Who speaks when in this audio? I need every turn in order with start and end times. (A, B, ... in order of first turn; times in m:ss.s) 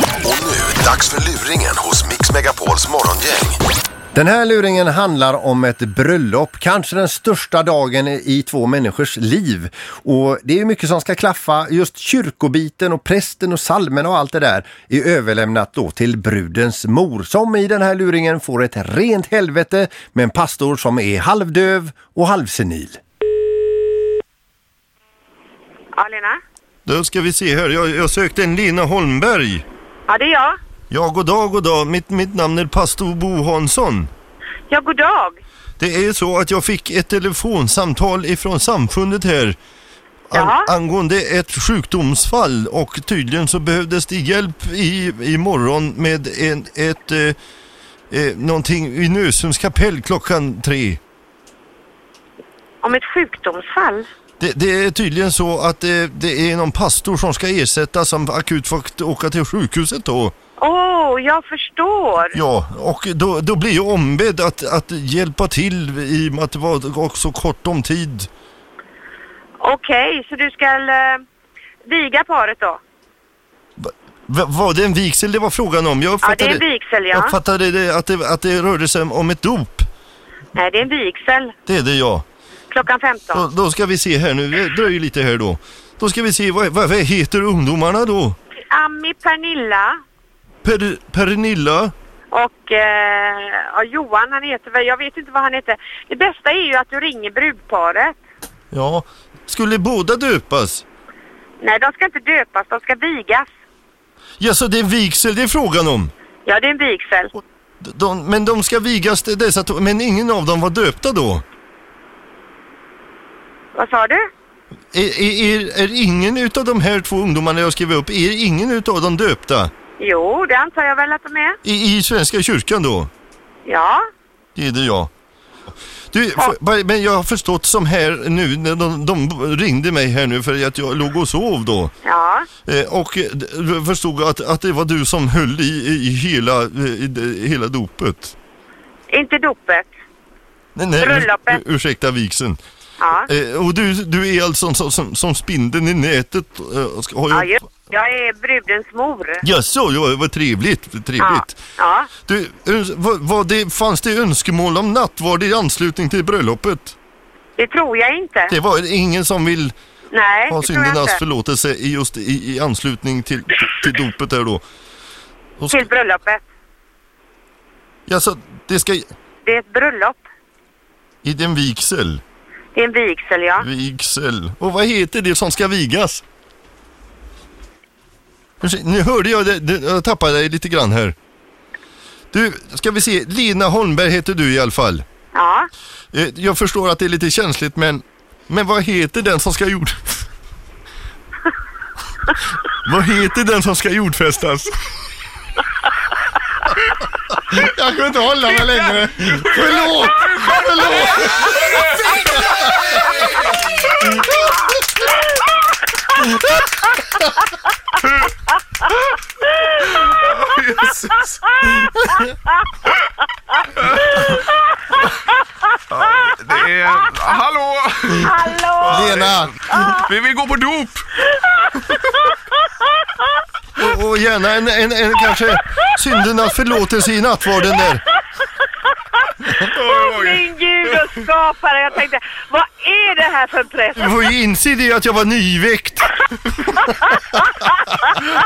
0:00.2-0:03.6 A
0:04.1-0:23.0 B
0:25.9-0:26.4 C
0:26.9-0:29.6 D
0:30.1-0:30.6 C
0:30.9-0:34.1 D
0:34.7-0:35.4 C
0:35.8-0:39.6 D
0:40.3-0:47.4 D
0:40.3-0:40.7 C
0:48.1-0:51.0 D
0:52.8-0:54.0 C
0:54.4-1:00.3 D
1:00.6-1:02.4 C
1:02.3-1:08.3 D
1:09.6-1:11.2 C
1:11.8-1:12.8 C
1:13.8-1:19.9 D
1:16.2-1:17.4 C
1:20.5-1:21.6 C
1:21.7-1:22.2 D
1:22.7-1:23.4 C
1:23.3-1:28.4 D
1:28.7-1:30.0 C
1:30.6-1:31.9 D
1:32.3-1:38.2 C
1:38.7-1:40.8 D
1:41.6-1:43.5 C
1:44.4-1:46.1 D
1:46.4-1:47.3 C
1:47.8-1:51.4 D
1:53.7-1:54.3 C
1:54.9-1:59.7 D
2:00.0-2:01.6 C
2:01.6-2:03.1 D
2:03.6-2:04.0 C
2:04.6-2:05.1 D
2:06.1-2:11.9 D
2:12.0-2:12.5 C
2:12.7-2:18.3 D
2:19.1-2:19.9 C
2:20.8-2:22.6 D
2:21.0-2:21.6 C
2:23.0-2:23.3 C
2:23.3-2:27.6 D
2:27.3-2:29.4 C
2:29.4-2:31.6 D
2:31.2-2:32.1 C
2:32.3-2:37.0 D
2:37.6-2:38.6 C
2:38.5-2:39.8 D
2:40.1-2:41.2 C
2:40.5-2:44.6 D
2:45.6-2:45.9 D
2:45.7-2:46.5 C
2:48.1-2:49.1 D
2:49.4-2:50.2 C
2:51.2-2:52.2 D
2:52.8-2:53.7 C
2:53.6-2:56.2 D
2:58.6-3:01.2 D
3:02.3-3:05.0 D
3:05.3-3:05.7 C
3:06.1-3:10.3 D
3:12.7-3:14.9 D
3:17.6-3:21.8 B
3:18.5-3:20.5 D
3:19.5-3:24.2 E
3:21.5-3:22.1 D
3:29.5-3:30.2 C
3:29.9-3:32.0 E
3:31.6-3:31.9 C
3:33.8-3:34.3 E
3:34.1-3:35.2 C
3:35.9-3:41.1 E
3:38.2-3:40.1 C
3:38.8-3:39.6 B
3:41.4-3:43.2 C
3:41.8-3:42.3 E
3:43.8-3:48.0 D
3:47.9-3:54.1 C
3:49.6-3:50.4 E
3:54.0-3:56.2 D
3:57.6-3:58.2 C